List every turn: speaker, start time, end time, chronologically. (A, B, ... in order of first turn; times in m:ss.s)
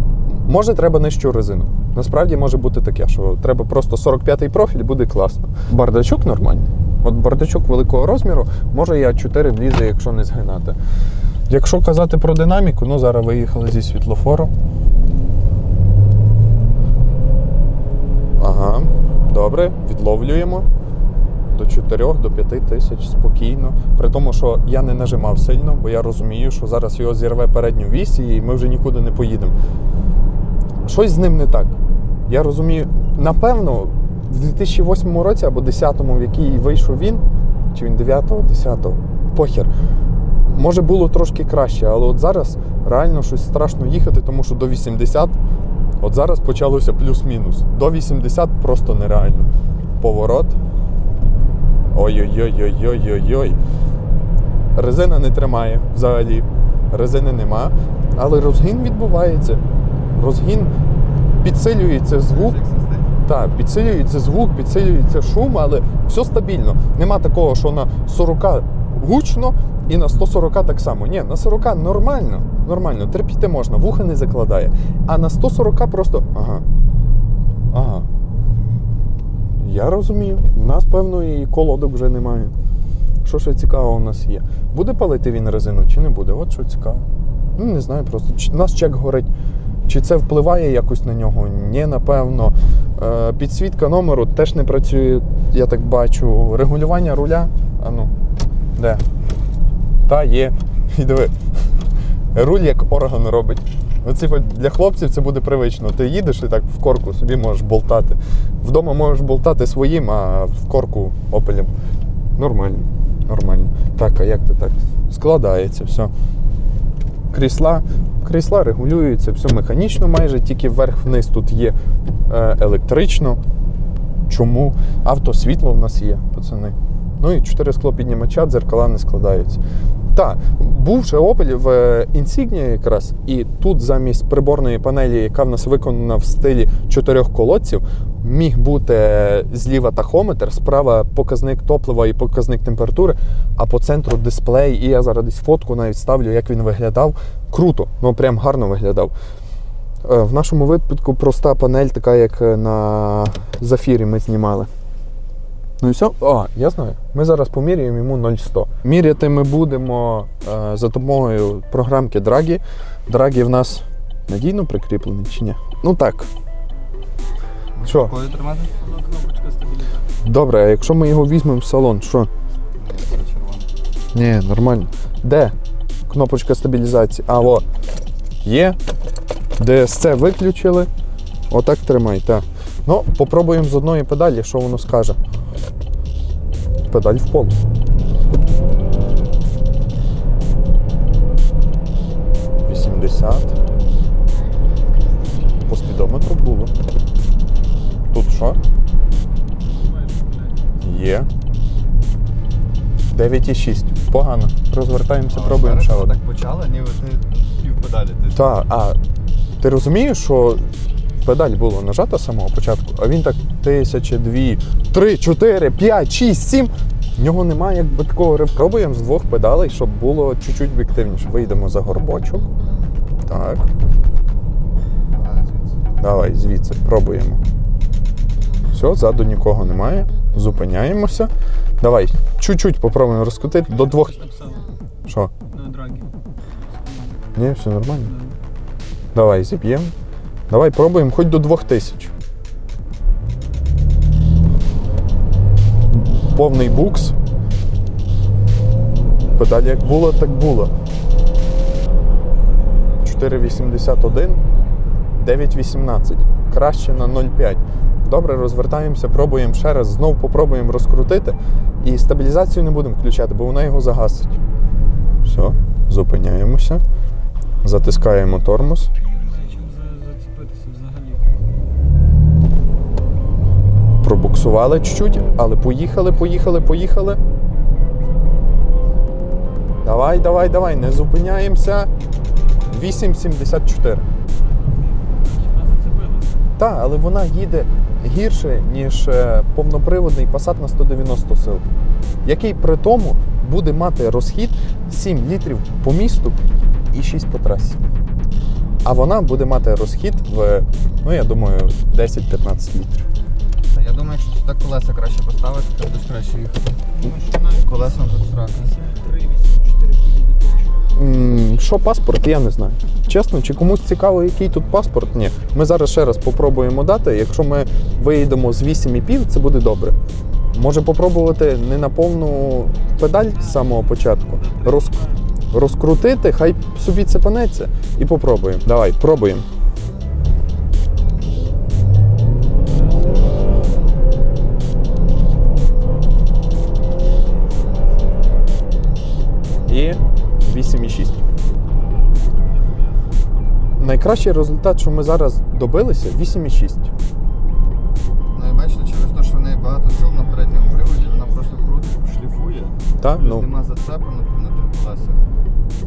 0:00.3-0:10.8 A
0:11.5-0:14.5 A
0:18.4-0:20.7 A
0:21.5-0:29.5 A
0:30.8-0:31.7 A
0:32.3-0:39.7 A
0:40.5-0:45.4 A
0:46.0-0:49.5 A
0:50.0-0:50.5 A
0:51.9-0:53.6 A
0:54.7-0:59.6 A
1:00.1-1:00.7 A
1:01.4-1:02.6 A
1:02.3-1:03.1 B
1:03.2-1:16.6 A
1:17.7-1:18.1 A
1:19.6-1:22.5 A
1:23.2-1:27.0 A
1:27.6-1:29.3 A
1:29.9-1:38.1 A
1:38.8-1:39.0 A
1:40.0-1:41.3 A
1:42.3-1:51.7 A
1:52.4-1:56.1 A
1:57.3-2:01.8 A
2:02.3-2:03.4 A
2:04.3-2:09.6 A
2:10.1-2:29.1 A
2:30.0-2:34.7 A
2:35.8-2:46.3 A
2:47.8-2:48.7 B
2:47.8-2:48.1 A
2:48.8-2:50.1 C
2:50.2-2:52.3 A
2:52.7-2:53.7 B
2:54.1-2:55.5 A
2:56.1-2:57.6 A
2:58.4-2:58.8 A
2:59.6-3:00.9 A
3:01.5-3:05.2 A
3:06.9-3:07.6 A
3:12.6-3:13.6 A
3:15.6-3:16.7 A
3:18.1-3:18.6 A
3:19.7-3:20.7 C
3:20.8-3:21.3 A
3:23.1-3:26.2 A
3:25.3-3:28.5 B
3:28.3-3:29.0 A
3:29.6-3:30.7 A
3:31.2-3:42.5 A
3:43.2-3:43.6 A
3:45.1-3:45.8 B
3:46.0-3:47.4 A
3:48.6-3:54.2 A
3:53.7-3:54.7 C
3:55.0-3:55.3 A
3:55.5-3:56.2 C
3:56.7-3:57.2 C
3:57.3-3:58.1 A
3:58.0-3:58.4 C
3:59.1-3:59.9 A
4:00.5-4:02.1 A
4:05.9-4:07.2 A
4:09.3-4:10.7 A
4:13.0-4:14.4 A
4:15.2-4:24.4 A
4:25.2-4:26.8 A
4:27.6-4:28.9 A
4:29.0-4:31.2 C
4:34.0-4:37.2 A
4:39.8-4:41.9 A
4:42.6-4:44.0 A
4:44.7-4:46.4 C
4:46.6-4:51.6 A
4:52.2-4:56.4 A
4:56.9-4:57.8 A
4:58.8-5:03.0 A
5:03.7-5:08.8 B
5:07.0-5:10.8 C
5:10.9-5:20.0 A
5:20.5-5:29.4 A
5:24.4-5:25.2 C
5:39.7-5:41.2 A
5:43.8-5:46.9 A
5:48.3-5:55.3 B
5:53.0-5:53.5 A